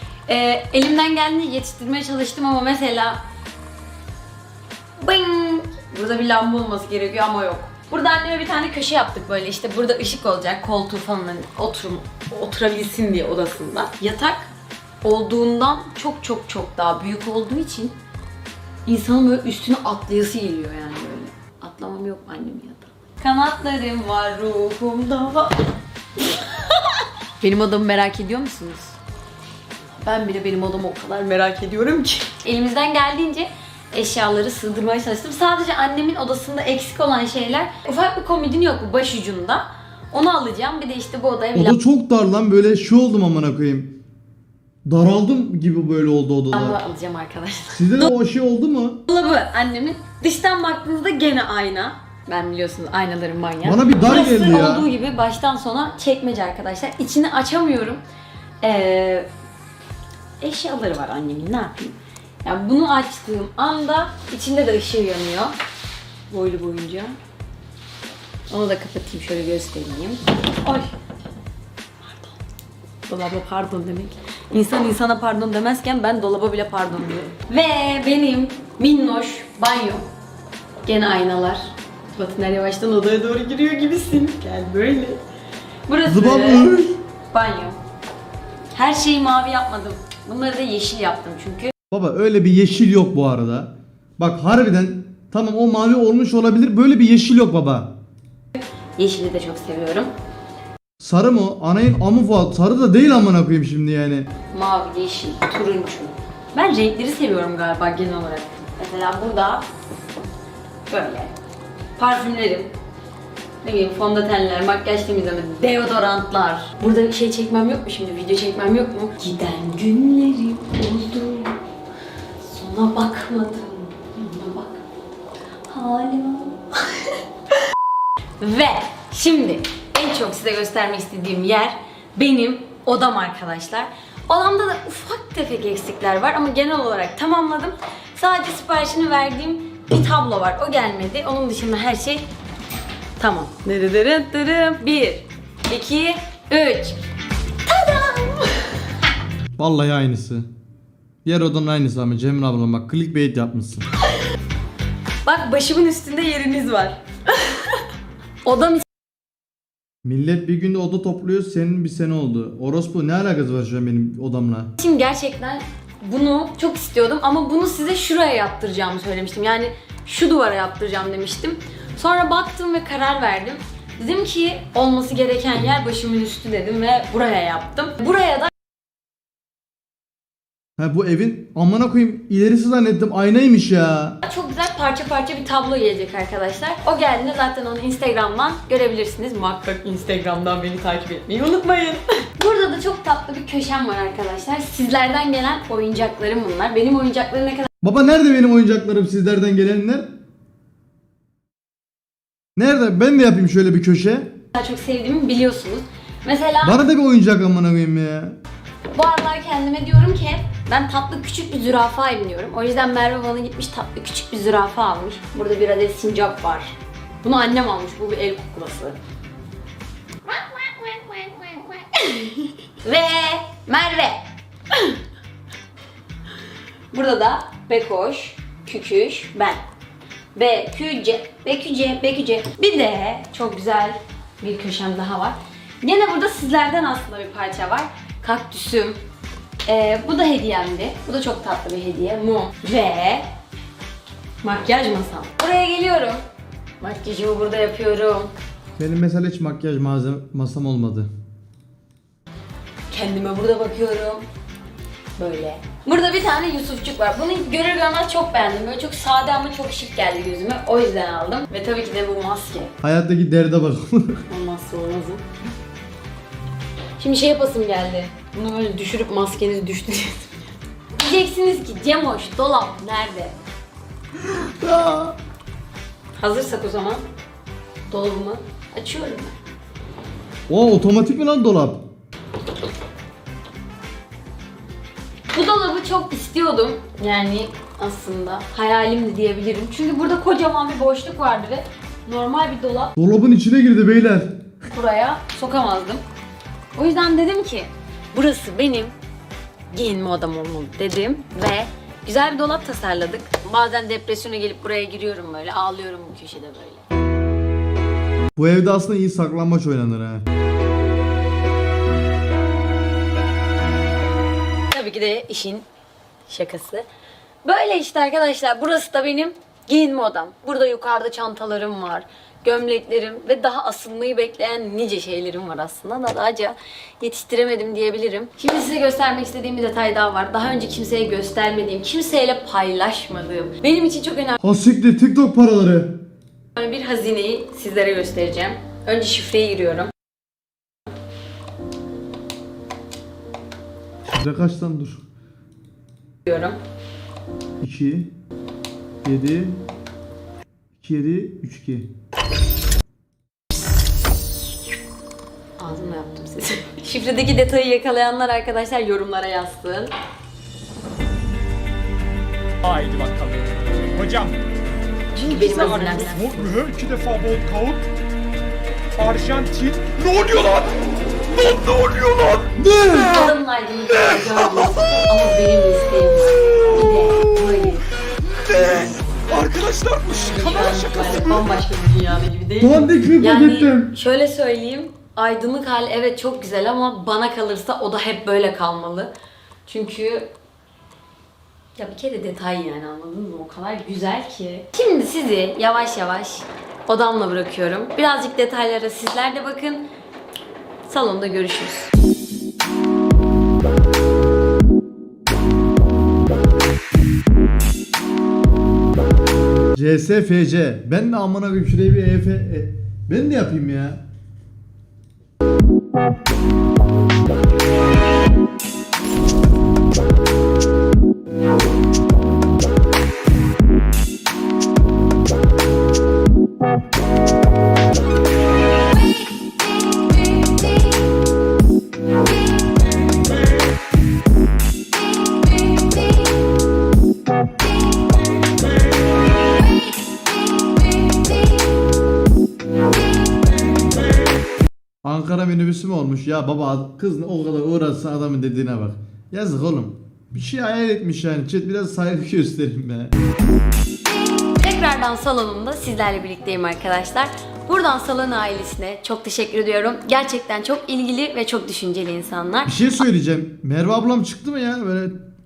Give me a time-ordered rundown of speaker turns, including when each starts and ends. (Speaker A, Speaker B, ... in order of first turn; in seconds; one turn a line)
Speaker A: 0.3-3.2
Speaker A: 5.0-14.5
Speaker A: 15.0-18.0
Speaker A: 18.9-28.9
Speaker A: 29.9-41.8
Speaker B: 41.5-43.9
Speaker B: 44.8-46.8
Speaker A: 46.5-48.1
Speaker B: 47.7-49.0
Speaker A: 49.1-58.0
Speaker B: 53.6-54.9
Speaker A: 58.6-59.3
Speaker A: 60.4-65.5
Speaker A: 66.3-67.2
Speaker A: 68.5-70.9
Speaker A: 72.0-72.3
Speaker A: 73.1-80.0
Speaker A: 80.8-85.2
Speaker A: 85.9-87.8
Speaker B: 86.0-87.0
Speaker A: 88.7-91.7
Speaker B: 91.9-98.0
Speaker A: 98.5-100.1
Speaker B: 101.0-104.3
Speaker A: 104.5-109.7
Speaker A: 110.9-111.3
Speaker A: 112.0-112.7
Speaker A: 113.6-121.6
Speaker A: 122.4-124.8
Speaker A: 125.7-127.2
Speaker A: 128.4-142.2
Speaker A: 143.2-147.0
Speaker A: 147.6-148.9
Speaker B: 149.6-150.5
Speaker B: 151.2-153.9
Speaker A: 155.2-157.8
Speaker A: 158.4-158.8
Speaker B: 160.0-164.7
Speaker A: 164.8-178.5
Speaker B: 180.8-184.2
Speaker A: 184.2-197.7
Speaker B: 197.8-200.1
Speaker B: 202.6-204.3
Speaker A: 204.5-206.8
Speaker B: 206.6-208.4
Speaker A: 208.9-219.0
Speaker A: 220.3-225.0
Speaker A: 226.9-229.6
Speaker A: 230.3-239.0
Speaker A: 239.7-243.2
Speaker A: 244.4-246.2
Speaker A: 246.8-248.3
Speaker B: 248.8-251.1
Speaker A: 252.9-254.2
Speaker A: 255.2-262.7
Speaker B: 262.8-264.2
Speaker A: 264.3-265.2
Speaker A: 267.0-273.3
Speaker B: 274.2-275.2
Speaker A: 276.2-277.0
Speaker A: 277.9-279.3
Speaker B: 280.5-281.8
Speaker A: 285.3-292.9
Speaker B: 293.0-294.4
Speaker A: 294.7-296.0
Speaker A: 296.8-298.9
Speaker A: 299.7-306.8
Speaker B: 308.4-310.2
Speaker A: 314.7-315.6
Speaker A: 316.3-316.8
Speaker A: 317.4-334.4
Speaker B: 334.4-336.0
Speaker A: 336.5-339.9
Speaker B: 344.0-345.1
Speaker A: 346.2-346.6
Speaker B: 347.6-348.1
Speaker B: 349.0-349.6
Speaker B: 350.8-351.9
Speaker A: 355.6-359.9
Speaker C: 362.6-364.4
Speaker C: 365.1-367.9
Speaker A: 365.2-366.4
Speaker C: 368.9-372.5
Speaker B: 372.6-373.1
Speaker A: 372.9-377.8
Speaker C: 379.3-380.8
Speaker B: 379.3-380.1
Speaker A: 380.3-389.1
Speaker B: 382.6-383.9
Speaker A: 389.6-390.3
Speaker A: 391.8-399.9
Speaker A: 400.9-401.9
Speaker B: 409.7-414.0
Speaker B: 445.0-453.1
Speaker A: 454.6-462.9
Speaker B: 462.6-465.2